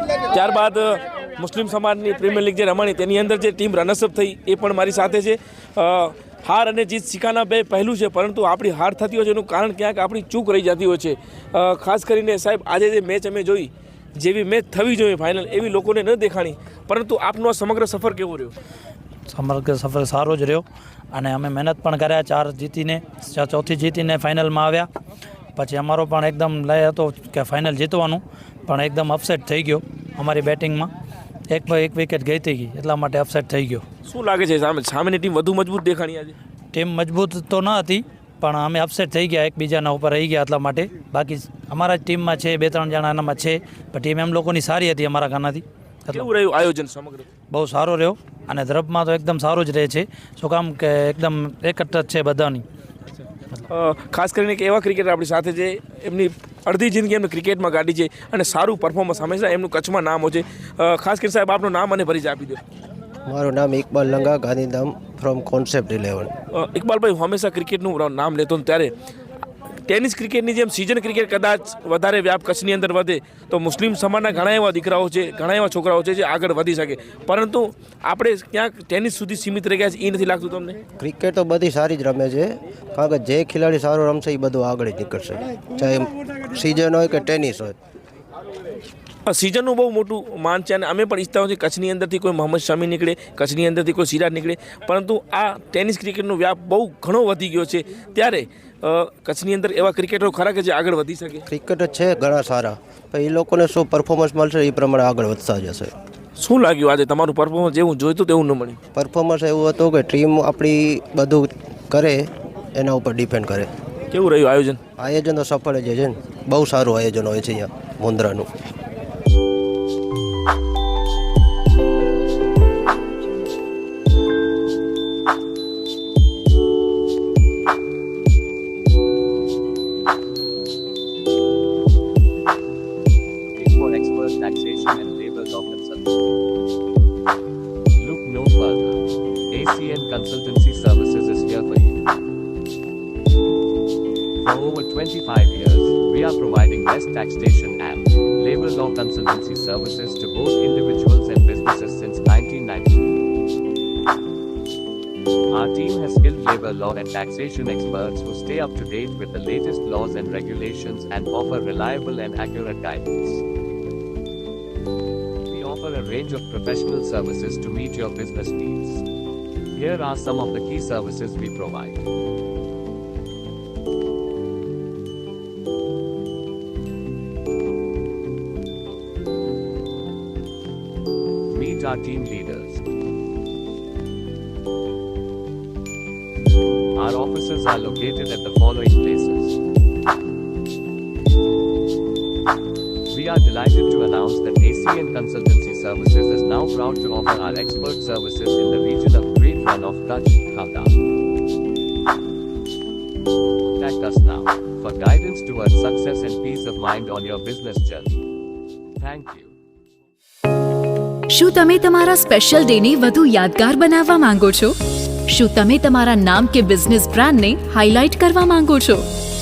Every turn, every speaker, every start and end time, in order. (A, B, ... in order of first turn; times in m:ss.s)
0:00.3-0:18.5 A
0:19.3-0:24.9 B
0:25.6-0:30.9 B
0:31.5-0:33.8 B
0:34.0-0:36.4 A
0:36.7-0:46.3 B
0:46.1-0:47.3 A
0:47.5-0:52.6 B
0:53.7-1:02.6 A
1:03.3-1:06.3 C
1:06.5-1:08.9 A
1:09.9-1:20.8 A
1:21.0-1:27.7 C
1:29.2-1:41.4 A
1:41.5-1:45.9 C
1:46.4-1:48.8 A
1:48.9-1:53.7 C
1:54.1-1:54.8 A
1:55.0-1:58.5 C
2:13.5-2:16.2 D
2:18.0-2:22.0 D
2:24.4-2:33.1 D
2:35.5-2:43.4 D
2:45.5-2:49.0 D
2:49.7-2:52.0 D
3:01.5-3:02.8 D
3:07.0-3:09.6 D
3:13.1-3:21.0 D
3:23.7-3:28.2 D
3:29.0-3:29.5 D
3:31.3-3:39.1 E